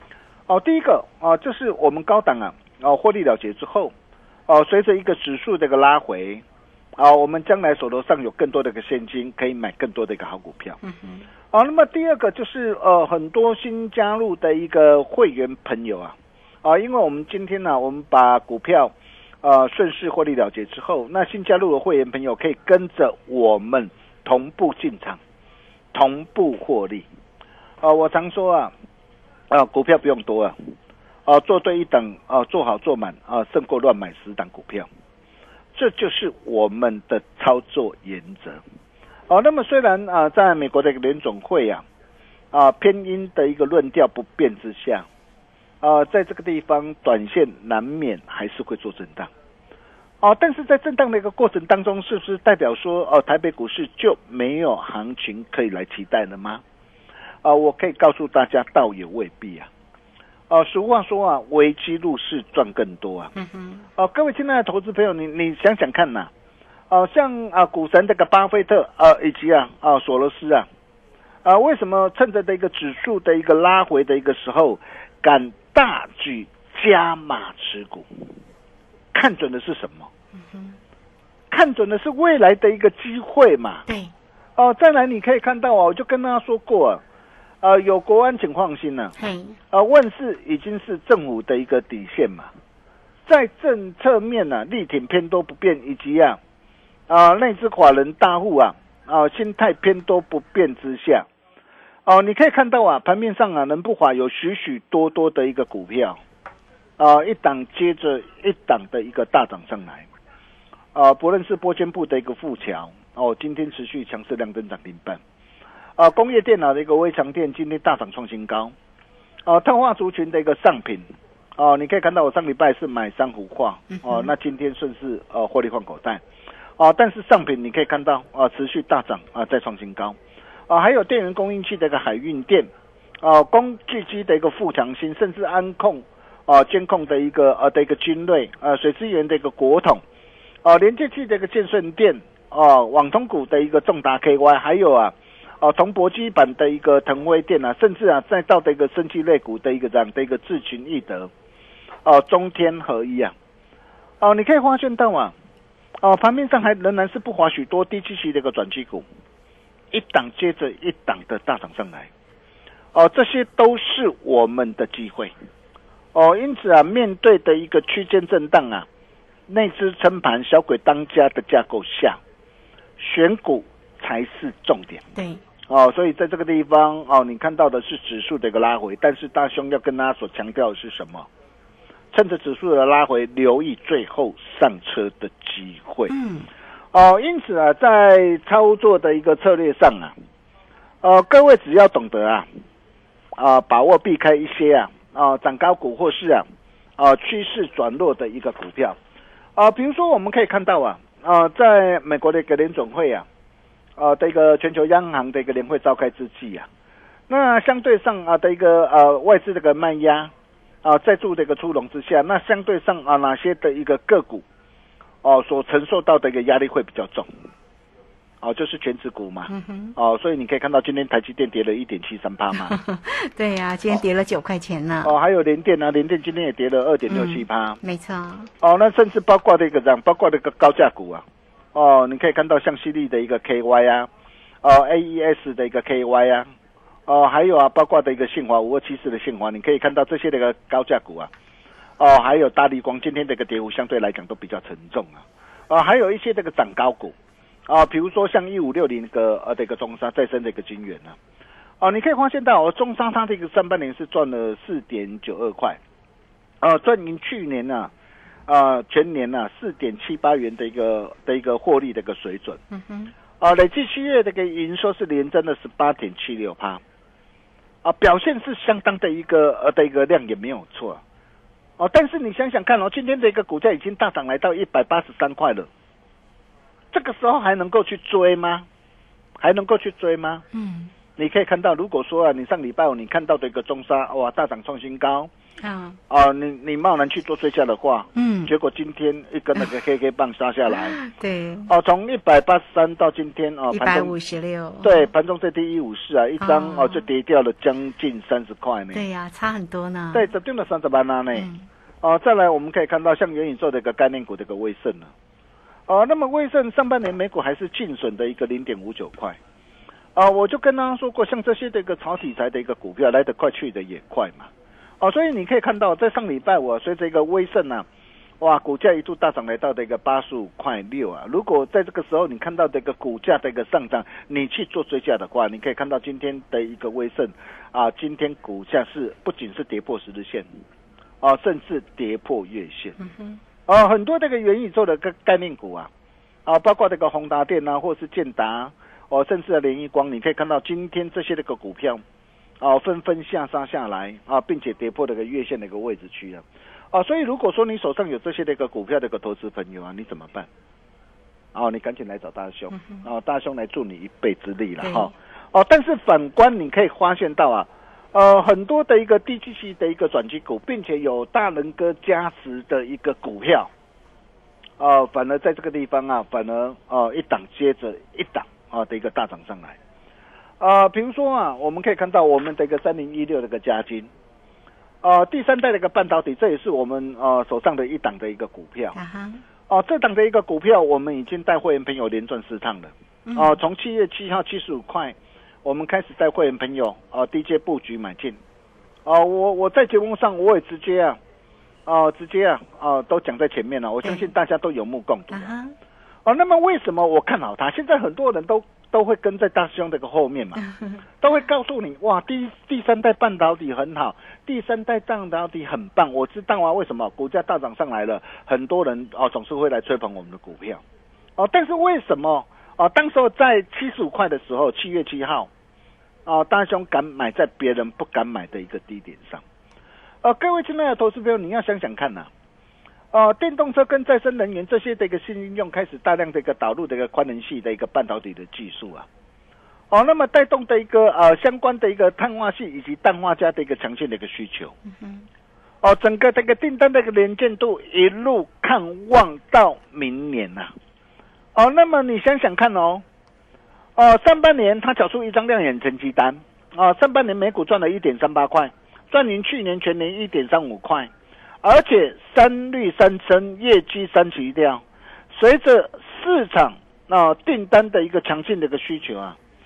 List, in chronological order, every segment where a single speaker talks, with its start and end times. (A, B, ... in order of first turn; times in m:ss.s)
0:00.5-0:03.9 A
0:04.5-0:06.4 A
0:07.0-0:10.8 A
0:10.8-0:11.2 B
0:11.5-0:25.2 A
0:25.9-0:27.0 A
0:27.8-0:28.7 A
0:29.5-0:30.5 A
0:31.2-0:34.9 A
0:35.8-0:38.6 A
0:39.3-0:41.8 A
0:42.5-0:45.1 A
0:45.8-0:49.3 A
0:50.2-0:56.6 A
0:57.4-0:59.7 A
1:00.5-1:03.3 A
1:03.3-1:03.8 B
1:04.0-1:06.3 A
1:06.9-1:10.7 A
1:11.4-1:18.1 A
1:19.1-1:20.1 A
1:20.4-1:20.8 B
1:21.5-1:23.8 A
1:23.9-1:24.1 B
1:24.6-1:27.0 A
1:27.6-1:29.1 A
1:29.2-1:29.6 B
1:29.7-1:32.5 A
1:33.3-1:36.4 A
1:37.1-1:41.3 A
1:42.0-1:46.2 A
1:47.0-1:50.1 A
1:50.9-1:55.2 A
1:56.0-1:58.7 A
1:59.4-2:06.2 A
2:04.0-2:04.3 B
2:06.8-2:10.2 A
2:10.7-2:12.7 A
2:13.2-2:20.0 A
2:20.6-2:31.3 A
2:32.0-2:33.3 A
2:34.2-2:35.3 A
2:36.0-2:39.0 A
2:39.9-2:42.1 A
2:42.9-2:45.3 A
2:46.1-2:48.9 A
2:49.5-2:52.2 A
2:53.0-2:55.0 A
2:55.1-2:55.4 B
2:55.7-3:01.3 A
3:02.1-3:06.1 A
3:06.1-3:06.5 B
3:06.9-3:10.1 A
3:11.0-3:12.4 A
3:13.4-3:16.4 A
3:17.0-3:19.0 A
3:19.6-3:23.2 A
3:24.0-3:26.7 A
3:27.3-3:30.3 A
3:30.8-3:34.4 A
3:35.2-3:37.3 A
3:38.4-3:42.8 A
3:39.5-3:39.9 B
3:42.5-3:45.1 B
3:45.0-3:47.8 A
3:47.1-3:48.5 B
3:48.6-3:54.1 A
3:54.6-3:56.5 A
3:57.1-4:01.3 A
4:02.0-4:07.1 A
4:07.7-4:11.2 A
4:11.8-4:15.8 A
4:16.6-4:17.9 A
4:18.5-4:22.6 A
4:22.7-4:23.1 B
4:23.4-4:26.8 A
4:27.8-4:31.0 A
4:31.8-4:35.7 A
4:36.9-4:38.6 A
4:39.4-4:40.4 A
4:40.5-4:40.9 B
4:41.2-4:45.3 A
4:45.6-4:46.0 B
4:46.1-4:51.0 A
4:48.1-4:48.5 B
4:50.7-4:51.7 B
4:51.7-4:54.2 A
4:53.7-4:55.1 B
4:54.8-4:59.0 A
4:56.4-4:57.0 B
4:58.9-5:00.3 B
5:00.1-5:01.5 A
5:01.3-5:01.7 B
5:02.0-5:05.1 A
5:05.9-5:09.4 A
5:10.2-5:14.5 A
5:15.0-5:17.9 A
5:18.4-5:30.5 A
5:31.2-5:33.0 A
5:33.0-5:33.4 B
5:33.7-5:35.9 A
5:36.4-5:42.0 A
5:42.6-5:50.5 A
5:51.5-6:03.7 A
5:52.7-5:53.0 B
5:54.8-5:55.1 B
6:04.8-6:09.8 A
6:10.6-6:14.1 A
6:15.0-6:19.0 A
6:18.9-6:19.4 B
6:19.7-6:28.4 A
6:23.2-6:23.6 B
6:29.0-6:31.2 A
6:31.9-6:35.5 A
6:34.0-6:34.3 B
6:35.3-6:35.7 B
6:36.2-6:40.6 A
6:40.6-6:41.0 B
6:41.2-6:50.8 A
6:51.4-6:55.5 A
6:56.2-6:59.4 A
7:00.2-7:02.3 A
7:03.1-7:09.1 A
7:09.9-7:14.8 A
7:15.0-7:15.3 B
7:15.8-7:20.7 A
7:21.5-7:23.0 A
7:24.0-7:31.1 A
7:31.6-7:39.4 A